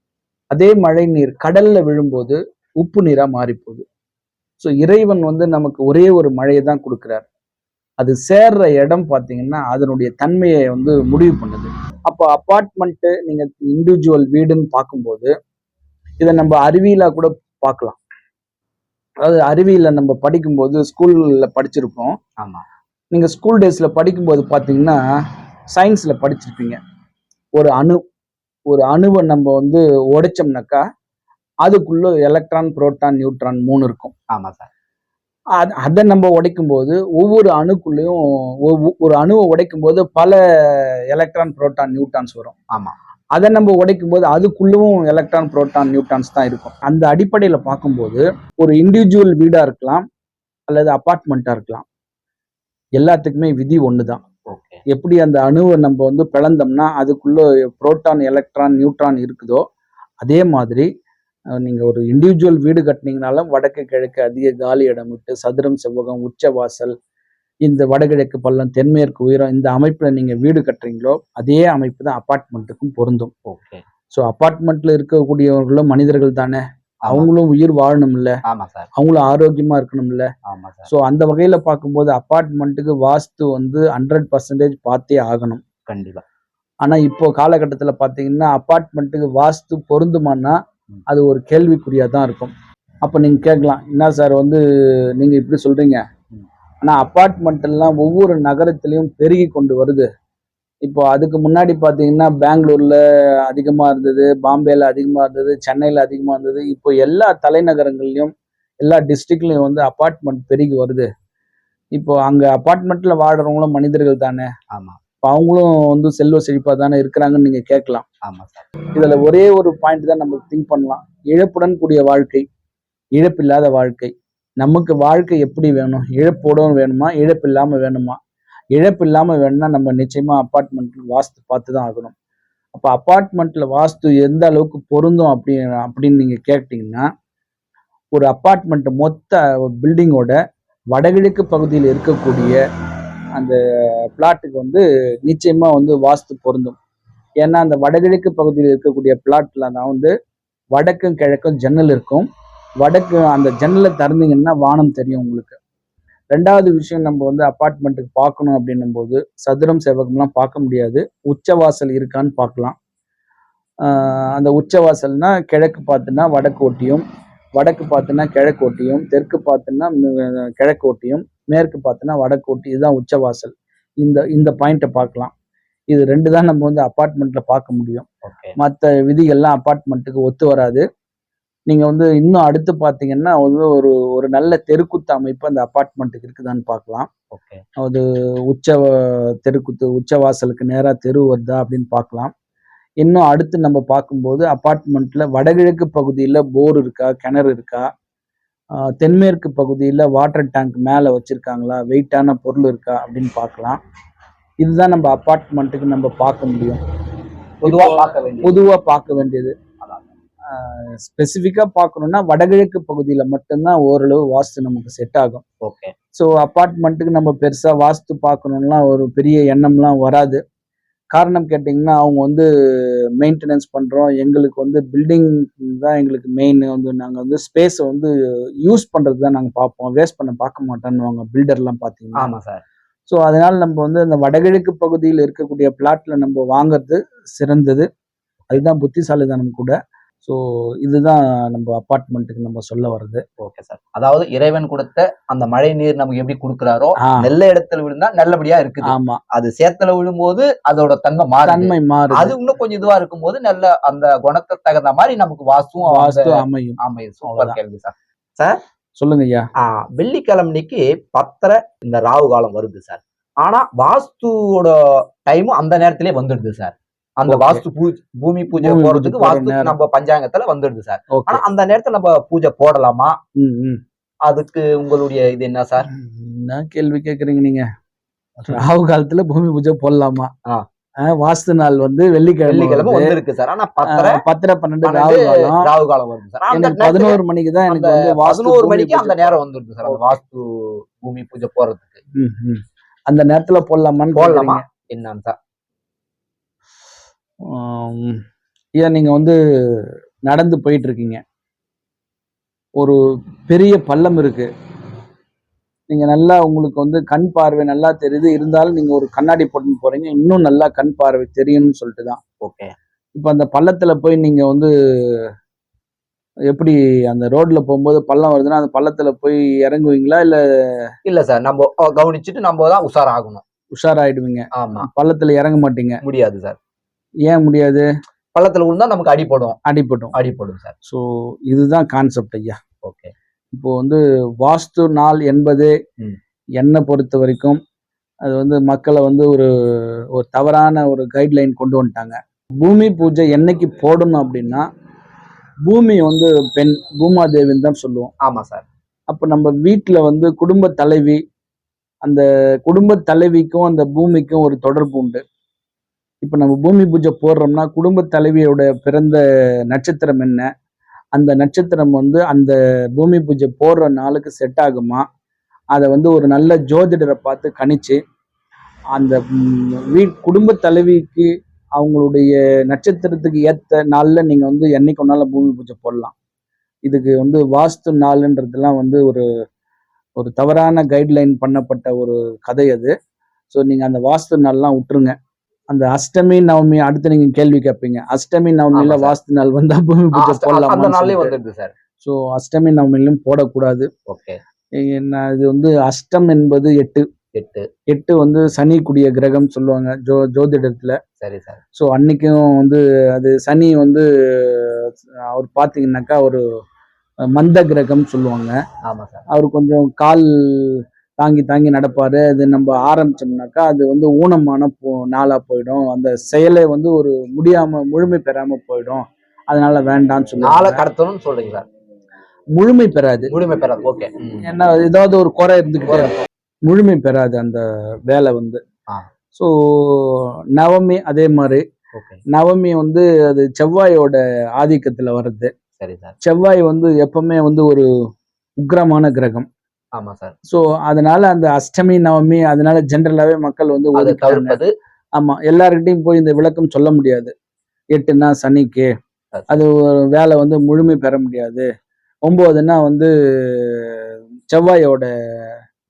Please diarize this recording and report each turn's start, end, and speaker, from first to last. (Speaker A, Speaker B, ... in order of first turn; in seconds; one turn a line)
Speaker A: 0.5-3.8
Speaker A: 4.6-7.2
Speaker A: 8.0-15.3
Speaker A: 16.2-18.0
Speaker A: 19.2-22.1
Speaker B: 22.4-22.6
Speaker A: 23.1-25.0
Speaker A: 25.7-26.8
Speaker A: 27.6-28.0
Speaker A: 28.7-30.8
Speaker A: 31.6-34.1
Speaker B: 34.3-34.7
Speaker A: 35.6-42.5
Speaker A: 43.3-50.0
Speaker A: 50.7-51.8
Speaker A: 53.0-54.2
Speaker B: 54.5-54.8
Speaker A: 54.9-59.6
Speaker A: 60.2-60.9
Speaker A: 61.6-66.9
Speaker A: 67.6-73.3
Speaker B: 73.5-73.8
Speaker A: 74.1-78.4
Speaker B: 78.5-78.9
Speaker A: 79.0-80.3
Speaker B: 80.5-80.9
Speaker A: 80.9-85.6
Speaker B: 85.9-86.2
Speaker A: 86.8-92.5
Speaker A: 93.0-94.6
Speaker A: 95.2-96.0
Speaker A: 96.8-100.0
Speaker A: 100.8-111.1
Speaker A: 111.9-114.5
Speaker B: 114.7-115.0
Speaker A: 115.2-118.0
Speaker B: 118.2-118.7
Speaker A: 118.9-122.4
Speaker A: 123.2-128.2
Speaker A: 128.7-132.1
Speaker A: 132.7-137.1
Speaker A: 138.1-140.4
Speaker A: 140.9-142.6
Speaker A: 144.1-146.8
Speaker A: 147.4-150.1
Speaker A: 150.7-152.3
Speaker A: 152.8-155.6
Speaker A: 156.3-162.7
Speaker A: 163.8-167.0
Speaker A: 167.6-175.3
Speaker A: 175.9-178.1
Speaker B: 178.2-178.6
Speaker A: 178.6-180.8
Speaker A: 181.7-187.1
Speaker B: 187.3-187.6
Speaker A: 187.8-192.3
Speaker A: 193.0-197.9
Speaker A: 199.0-203.8
Speaker A: 204.6-206.8
Speaker B: 207.6-208.6
Speaker A: 207.6-209.5
Speaker B: 209.8-210.1
Speaker A: 210.5-215.4
Speaker B: 215.6-215.9
Speaker A: 216.1-220.4
Speaker A: 221.1-228.1
Speaker A: 228.6-232.3
Speaker B: 232.2-232.6
Speaker A: 233.1-237.9
Speaker A: 238.5-243.2
Speaker B: 243.4-258.6
Speaker A: 247.0-247.3
Speaker A: 248.8-249.2
Speaker A: 251.4-252.3
Speaker A: 255.8-257.6
Speaker A: 259.0-259.4
Speaker B: 259.6-273.2
Speaker A: 267.3-267.6
Speaker A: 268.5-269.8
Speaker A: 271.1-271.4
Speaker A: 273.4-273.8
Speaker B: 274.2-275.9
Speaker A: 275.9-277.6
Speaker A: 278.4-280.3
Speaker A: 281.1-283.2
Speaker B: 282.4-284.2
Speaker A: 283.9-285.7
Speaker B: 284.8-292.0
Speaker A: 286.5-290.1
Speaker A: 292.1-294.6
Speaker B: 294.1-295.4
Speaker A: 297.4-298.2
Speaker A: 298.8-301.2
Speaker A: 303.5-304.5
Speaker A: 305.9-312.2
Speaker B: 312.4-312.7
Speaker A: 313.1-315.2
Speaker A: 316.5-320.9
Speaker B: 321.1-323.4
Speaker A: 323.7-326.0
Speaker B: 324.5-324.9
Speaker B: 326.0-326.6
Speaker A: 327.2-327.9
Speaker B: 328.3-329.6
Speaker A: 329.6-330.1
Speaker B: 330.1-330.7
Speaker A: 330.8-332.6
Speaker B: 332.8-333.1
Speaker A: 333.5-335.7
Speaker A: 336.6-337.6
Speaker A: 338.2-344.6
Speaker A: 345.6-348.1
Speaker B: 348.2-348.6
Speaker A: 349.1-351.2
Speaker A: 352.0-355.2
Speaker A: 356.2-360.5
Speaker A: 361.1-365.0
Speaker A: 365.7-368.0
Speaker A: 368.9-376.1
Speaker A: 376.9-379.2
Speaker A: 380.2-382.9
Speaker A: 383.5-385.1
Speaker A: 385.7-391.3
Speaker B: 388.7-389.1
Speaker B: 390.1-391.7
Speaker A: 392.0-393.9
Speaker B: 394.1-394.4
Speaker A: 394.8-397.0
Speaker B: 397.3-397.7
Speaker A: 397.9-401.0
Speaker B: 401.2-401.6
Speaker A: 401.8-406.4
Speaker A: 407.3-408.6
Speaker B: 408.8-409.2
Speaker A: 409.3-420.8
Speaker B: 420.4-421.6
Speaker A: 422.5-423.3
Speaker B: 423.3-424.4
Speaker A: 424.4-426.1
Speaker A: 426.6-428.6
Speaker A: 429.3-431.6
Speaker B: 431.9-432.2
Speaker A: 432.3-435.5
Speaker B: 435.8-436.1
Speaker A: 436.2-437.9
Speaker A: 438.6-439.5
Speaker B: 439.9-440.3
Speaker A: 440.5-444.6
Speaker B: 443.9-444.7
Speaker A: 445.2-447.3
Speaker A: 447.9-448.9
Speaker A: 449.5-451.6
Speaker A: 452.2-455.1